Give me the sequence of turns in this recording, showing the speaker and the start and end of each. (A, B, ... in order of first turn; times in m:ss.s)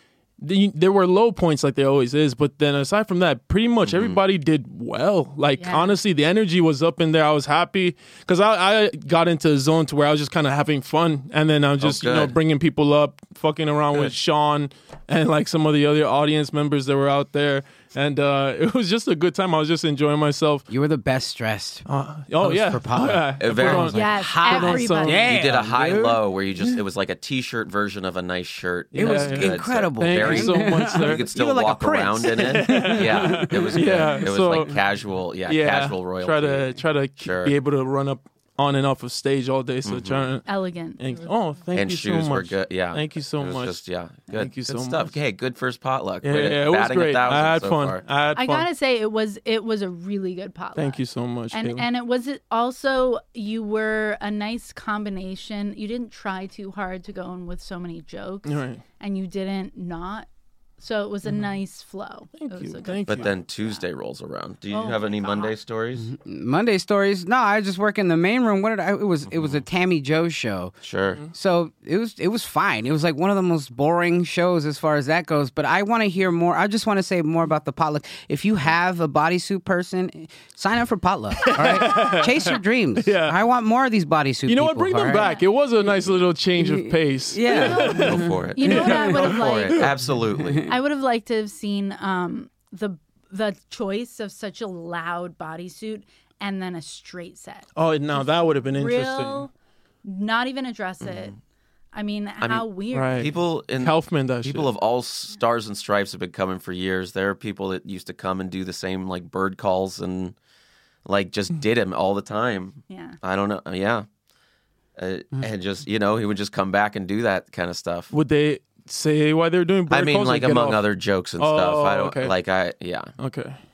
0:00.4-0:20.6 A
0:03.8-0:04.2 B
0:05.6-0:06.0 C
0:11.8-0:12.3 B
0:20.7-0:21.8 D
0:21.9-0:25.3 A
0:22.4-0:23.8 D
0:23.4-0:24.1 B
0:23.8-0:25.3 C
0:24.4-0:26.2 D
0:25.2-0:37.6 B
0:28.9-0:31.2 A
0:28.9-0:33.8 D
0:32.3-0:34.8 A
0:35.4-0:40.4 A
0:39.8-0:40.3 B
0:40.4-0:41.4 C
0:41.0-0:43.8 A
0:41.8-0:48.0 B
0:44.3-0:45.1 A
0:46.2-0:48.7 A
0:48.4-0:51.0 C
0:50.8-0:51.9 A
0:51.5-1:00.3 C
0:58.4-0:58.8 A
1:00.8-1:03.8 C
1:02.4-1:03.3 A
1:03.1-1:06.1 B
1:04.7-1:05.6 C
1:06.0-1:10.8 D
1:10.8-1:11.2 B
1:11.3-1:25.2 D
1:21.4-1:23.4 A
1:24.5-1:29.9 A
1:25.1-1:25.4 C
1:26.6-1:28.3 D
1:27.5-1:29.9 C
1:28.0-1:30.7 B
1:30.4-1:30.7 D
1:30.7-1:39.5 C
1:37.8-1:39.5 A
1:40.0-1:41.4 C
1:41.0-1:41.4 B
1:41.9-1:43.3 C
1:42.4-1:50.4 B
1:42.9-1:44.7 A
1:51.0-1:54.1 B
1:52.9-1:53.2 C
1:55.0-1:58.1 B
1:58.1-2:00.8 A
1:59.9-2:03.1 B
2:01.4-2:02.4 A
2:03.2-2:03.6 A